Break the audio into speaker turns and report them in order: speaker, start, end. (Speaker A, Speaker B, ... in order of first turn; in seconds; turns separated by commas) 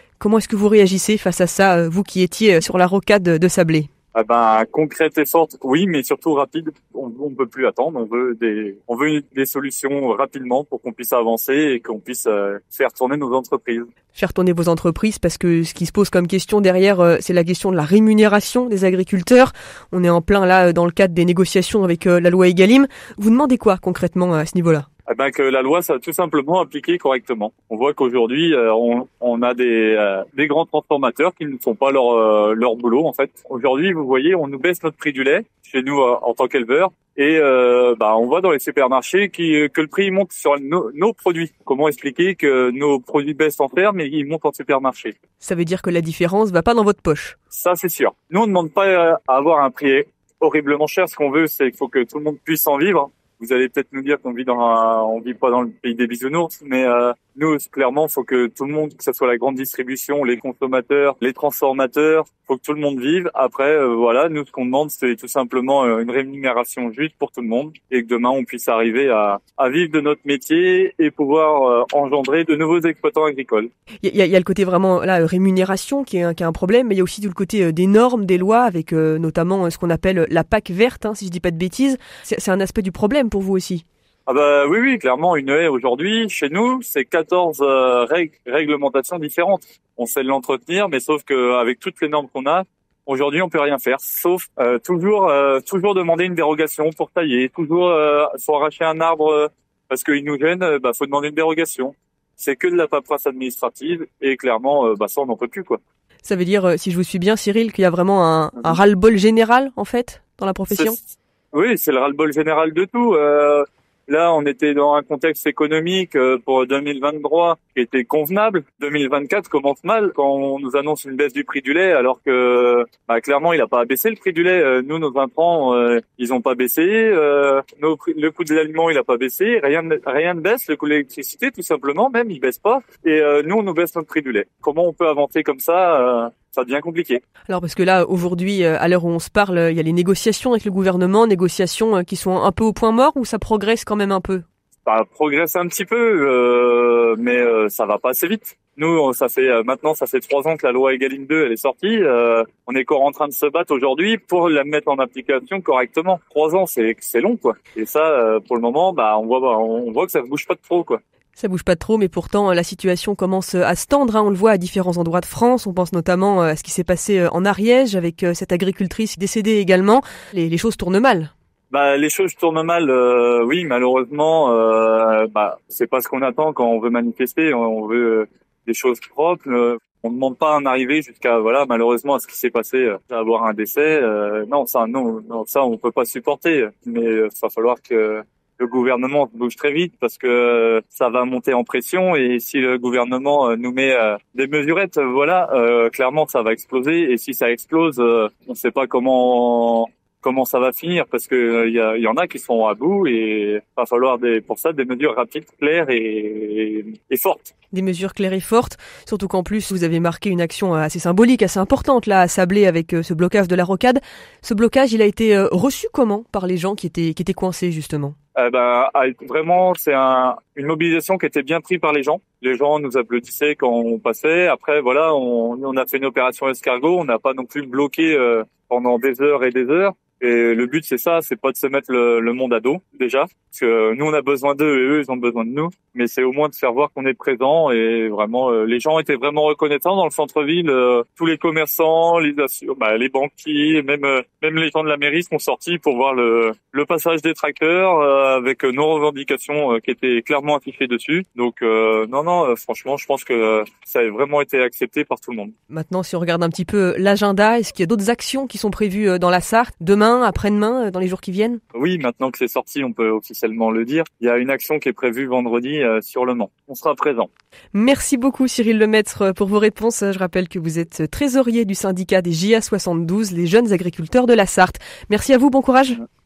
Speaker A: 0.2-3.9, Speaker B: 4.1-13.9, Speaker A: 14.1-24.9, Speaker B: 25.1-45.1, Speaker A: 45.4-47.4, Speaker B: 47.5-73.7, Speaker A: 74.0-83.8, Speaker B: 84.3-105.8, Speaker A: 106.2-111.0, Speaker B: 110.7-137.2, Speaker A: 137.5-144.4, Speaker B: 144.8-161.0, Speaker A: 161.4-171.3, Speaker B: 171.7-207.5, Speaker A: 207.7-218.2, Speaker B: 218.3-255.5, Speaker A: 255.7-261.6, Speaker B: 261.7-267.3, Speaker A: 267.7-276.0